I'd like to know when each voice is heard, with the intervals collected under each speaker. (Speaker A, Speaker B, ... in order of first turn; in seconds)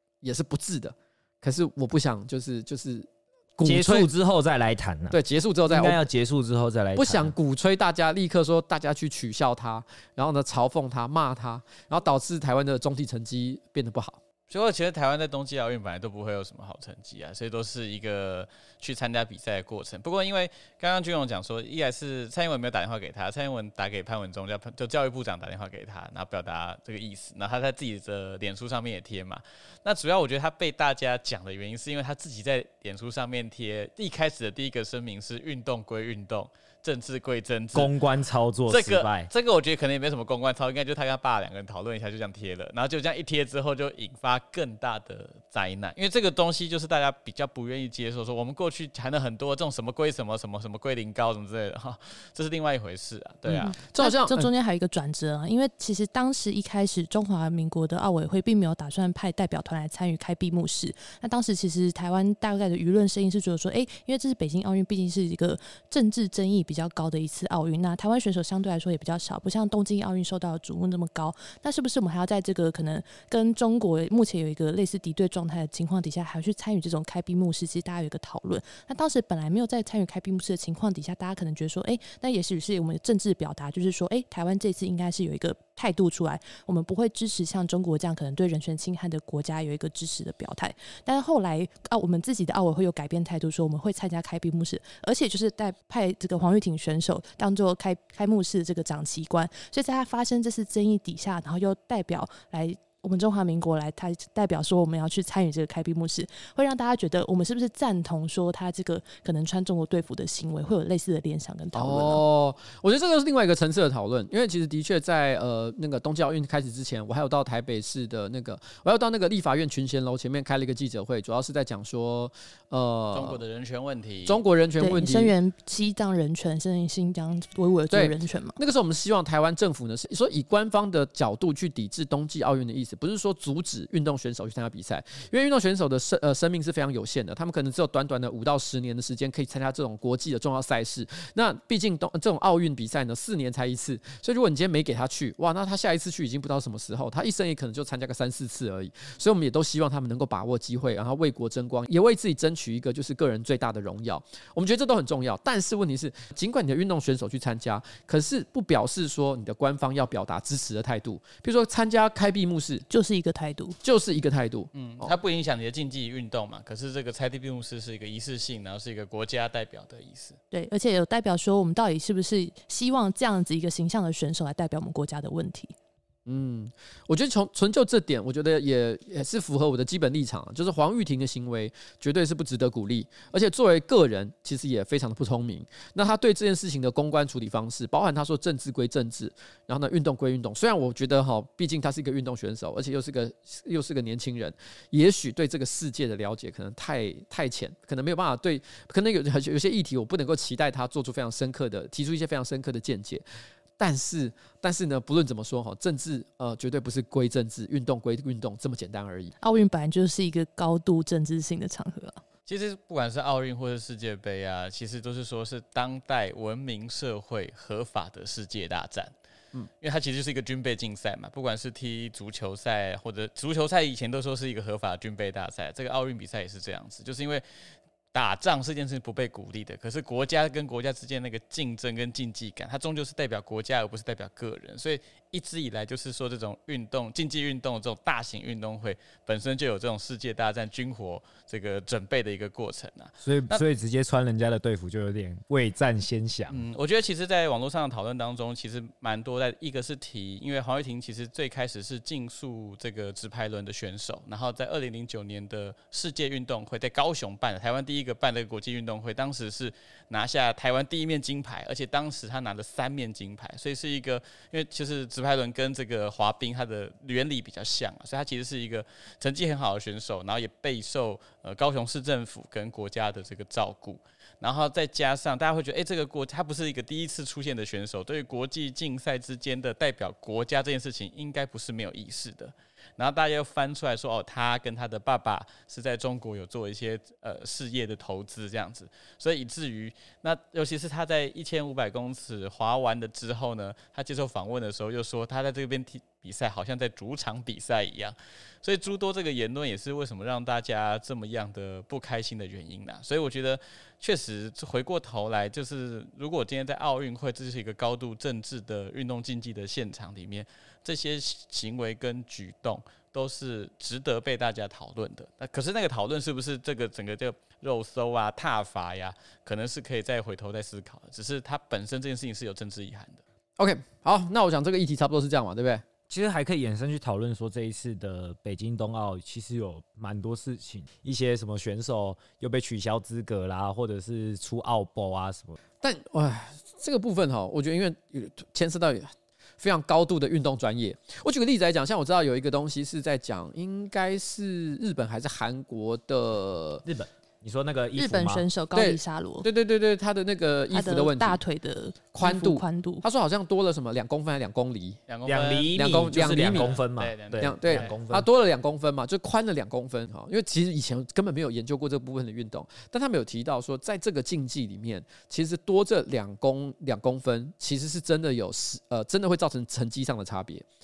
Speaker A: 0.2-4.1, 5.1-6.0, 7.0-14.2, 53.5-54.5, 111.7-123.4, 124.2-125.3, 127.9-162.8, 163.8-165.1, 176.2-203.2, 203.8-209.3, 323.6-325.8, 335.8-346.8, 348.7-351.4, 352.1-355.0, 355.7-356.8, 357.4-370.6
Speaker B: 3.6-7.3, 37.7-39.3, 243.2-246.6, 326.1-335.6, 346.8-348.5, 355.2-358.3
Speaker C: 14.5-37.9, 38.7-53.8, 123.1-124.4, 164.7-170.4, 212.5-219.1, 219.8-227.4, 228.1-243.6, 246.5-323.2, 355.1-357.9
Speaker D: 53.5-112.2, 124.8-128.6, 162.9-163.8, 170.5-175.7, 209.4-212.2, 347.9-349.4, 350.7-353.0